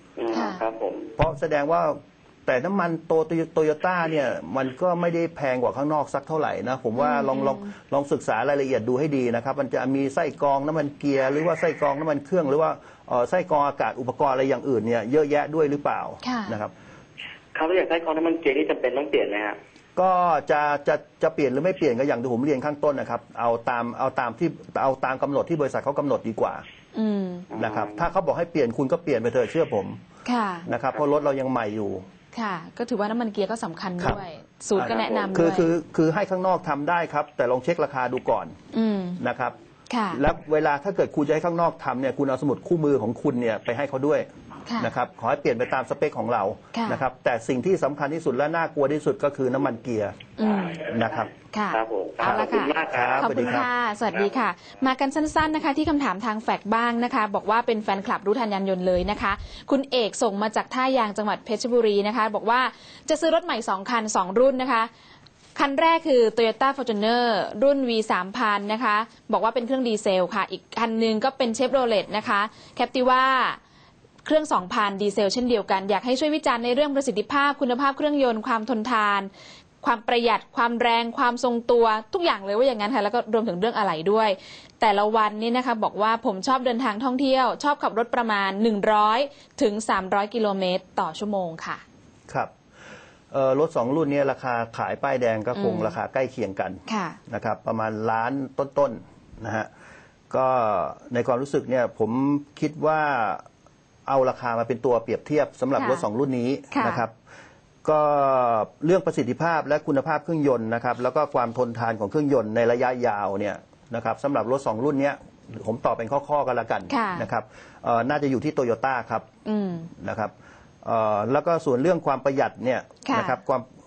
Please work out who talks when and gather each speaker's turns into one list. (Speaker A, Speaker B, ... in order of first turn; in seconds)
Speaker A: 0.2-1.1, 17.5-19.6, 27.5-28.1, 51.7-53.6
Speaker B: 0.3-0.6, 7.0-7.7, 16.2-16.6, 26.9-27.5, 30.2-30.7, 32.3-35.7, 38.7-39.2, 39.9-40.2, 44.7-44.9, 46.7-47.0, 50.4-50.8, 51.5-64.9, 65.5-73.6, 74.2-79.3, 79.8-91.8, 95.5-95.9, 96.9-97.2, 105.8-106.0, 106.7-107.0, 116.9-117.3, 119.4-119.9, 123.0-123.4
Speaker C: 1.2-16.7, 20.0-26.6, 27.5-30.0, 30.6-32.0, 34.7-38.5, 39.2-39.5, 40.1-51.3, 52.2-53.7, 93.3-99.7, 100.3-103.4, 104.0-107.1, 107.8-119.3, 120.0-123.6